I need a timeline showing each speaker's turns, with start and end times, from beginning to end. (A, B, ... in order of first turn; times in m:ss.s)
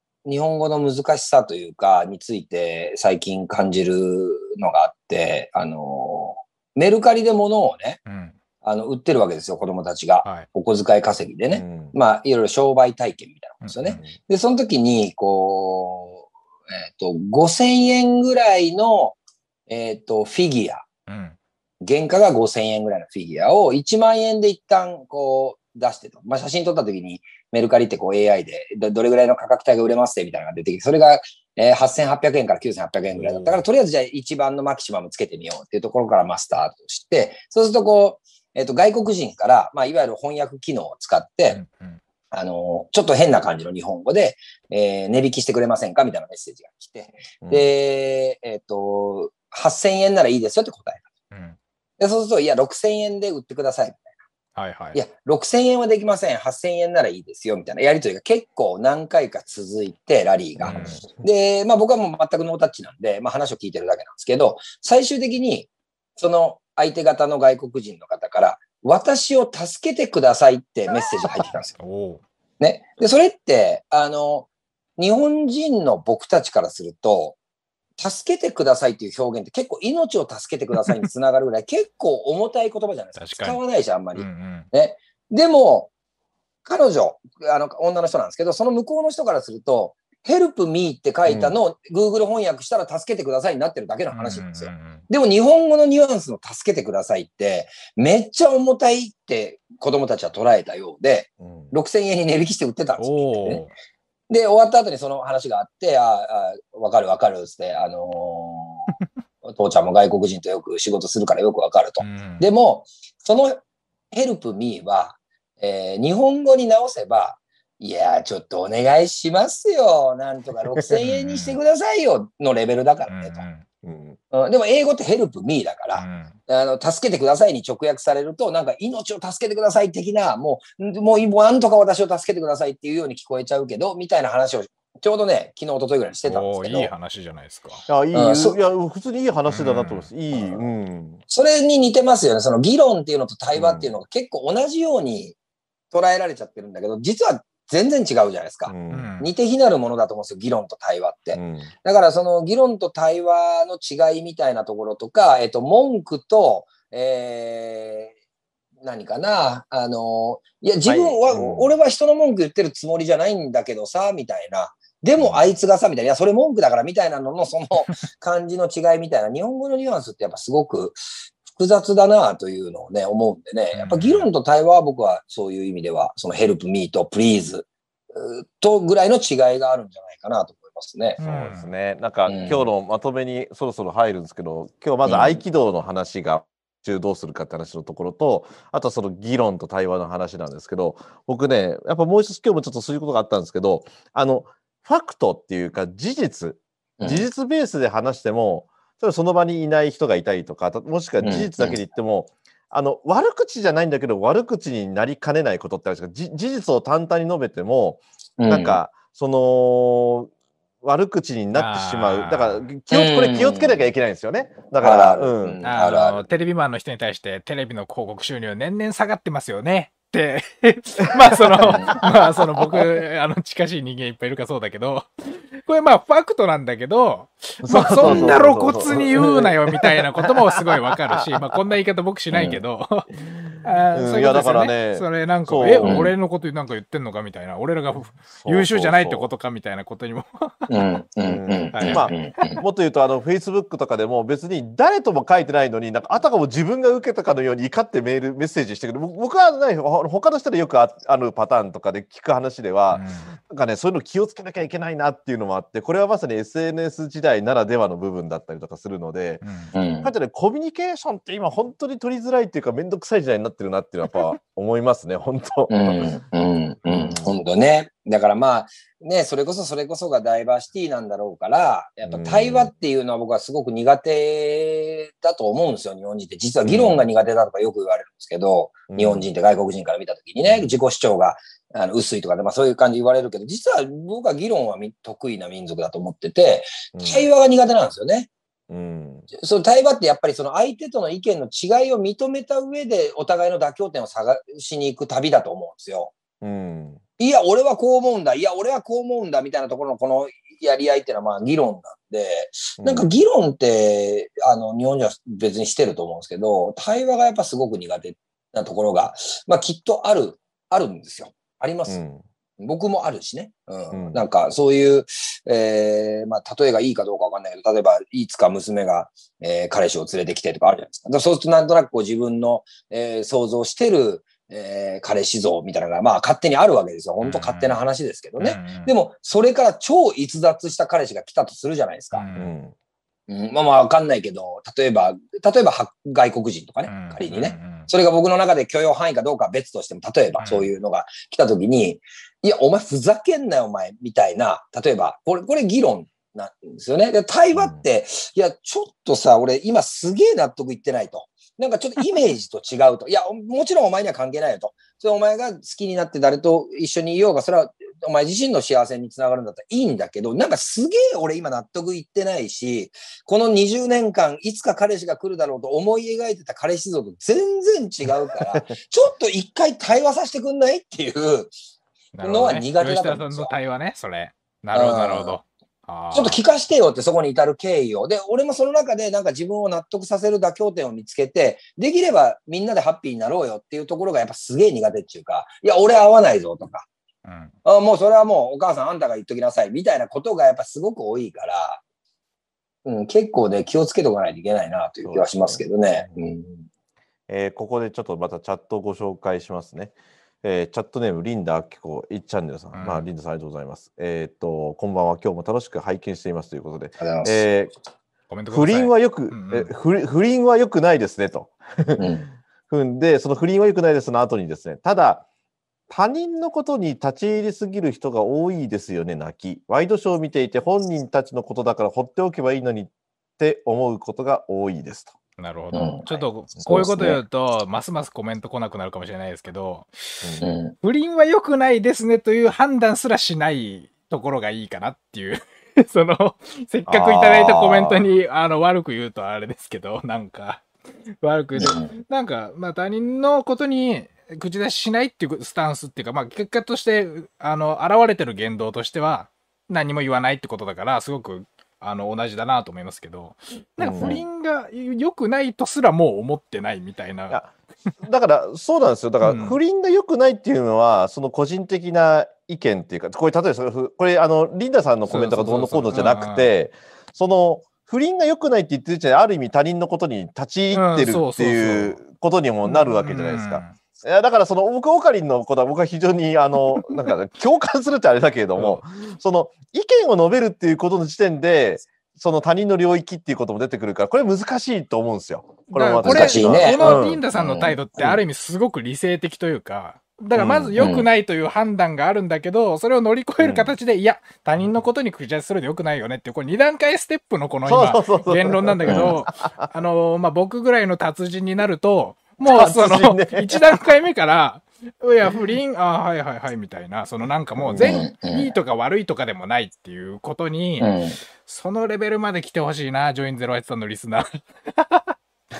0:00.2-0:08.0 A
0:08.0-0:08.3 B
0:08.6-0:19.2 A
0:11.5-0:11.9 C
0:13.6-0:14.0 B
0:19.7-0:20.8 A
0:21.1-0:21.4 B
0:21.8-0:41.6 A
0:33.1-0:33.6 B
0:41.5-0:42.0 B
0:42.3-0:51.1 A
0:47.4-0:47.7 C
0:51.3-0:51.6 B
0:52.0-0:54.0 A
0:54.6-0:55.0 B
0:54.9-1:11.7 A
1:00.6-1:01.2 C
1:00.6-1:01.0 B
1:11.8-1:12.2 B
1:12.6-1:17.4 A
1:18.0-1:25.9 A
1:23.2-1:23.6 B
1:24.1-1:24.7 B
1:26.6-1:43.6 A
1:31.3-1:31.6 C
1:34.1-1:35.0 B
1:41.4-1:41.7 C
1:43.0-1:43.7 B
1:44.3-1:48.9 A
1:49.4-1:53.6 A
1:52.0-1:52.5 B
1:54.1-2:03.4 A
2:01.0-2:01.6 B
2:03.1-2:03.6 B
2:03.8-2:04.2 C
2:04.3-2:16.9 A
2:05.9-2:06.4 B
2:16.2-2:17.8 B
2:17.9-2:21.2 C
2:18.1-2:18.6 A
2:19.5-2:20.1 B
2:20.3-2:20.6 A
2:21.3-2:25.4 A
2:23.5-2:23.9 C
2:25.9-2:38.1 A
2:28.7-2:29.1 C
2:28.9-2:29.3 B
2:31.3-2:31.7 C
2:38.8-3:01.2 A
2:40.8-2:41.7 C
2:53.7-2:54.3 B
3:01.2-3:01.7 B
3:01.2-3:30.3 C
3:02.3-3:02.7 A
3:05.0-3:05.4 A
3:17.0-3:17.3 A
3:21.2-3:21.8 A
3:28.4-3:28.8 A
3:30.8-3:35.6 C
3:31.5-3:32.6 B
3:32.9-3:33.9 A
3:34.8-3:36.2 A
3:35.6-3:53.1 B
3:41.3-3:41.9 C
3:41.7-3:42.0 A
3:47.6-3:51.4 C
3:48.0-3:49.2 A
3:52.3-3:52.6 A
3:53.2-3:56.1 C
3:53.6-4:00.9 B
3:55.8-3:56.1 A
3:58.3-3:59.3 C
4:00.7-4:02.6 A
4:01.2-4:19.4 C
4:01.7-4:02.1 B
4:12.9-4:13.4 B
4:19.4-4:19.7 B
4:19.7-4:20.1 A
4:20.0-4:26.1 C
4:25.7-4:48.3 A
4:26.8-4:27.3 C
4:32.0-4:32.7 C
4:36.6-4:37.0 C
4:38.9-4:39.3 C
4:40.4-4:40.7 C
4:46.9-4:47.3 C
4:48.7-4:49.3 C
4:49.3-4:56.1 A
4:56.4-4:57.0 C
4:57.2-5:12.0 A
5:02.8-5:03.1 C
5:11.9-5:12.2 C
5:12.6-5:32.2 A
5:13.9-5:14.2 C
5:27.2-5:27.8 B
5:28.4-5:28.9 B
5:32.1-5:32.5 B
5:32.3-5:32.7 C
5:33.3-6:11.5 A
5:36.9-5:37.9 B
5:40.4-5:40.7 B
5:47.5-5:47.8 C
6:12.1-6:16.4 B
6:12.2-6:13.5 A
6:14.7-6:15.4 A
6:16.1-6:26.9 A
6:27.2-6:27.5 B
6:27.6-6:31.8 A
6:32.8-6:36.6 A
6:35.0-6:36.2 C
6:37.3-6:47.7 C
6:42.7-6:43.1 B
6:47.0-6:47.4 A
6:48.3-6:49.7 B
6:48.5-6:52.0 C
6:52.0-6:52.3 A
6:52.7-6:55.2 C
6:55.9-7:05.1 C
7:05.4-7:10.2 B
7:05.7-7:07.2 A
7:06.6-7:06.8 C
7:10.2-7:10.5 C
7:10.4-7:10.7 A
7:10.8-7:37.9 B
7:16.9-7:18.0 C
7:21.6-7:21.9 A
7:33.8-7:34.2 C
7:37.3-8:07.2 C
7:39.2-7:39.6 B
7:45.1-7:46.5 B
7:50.7-7:52.0 B
7:52.6-7:53.8 B
7:58.6-7:58.8 B
8:05.7-8:30.9 B
8:06.0-8:07.8 A
8:10.3-8:10.7 C
8:10.8-8:11.1 A
8:13.4-8:13.8 C
8:17.6-8:19.7 C
8:18.9-8:19.1 A
8:22.4-8:23.6 C
8:27.6-8:28.0 C
8:27.8-8:28.5 A
8:30.8-8:31.2 A
8:31.4-8:35.1 B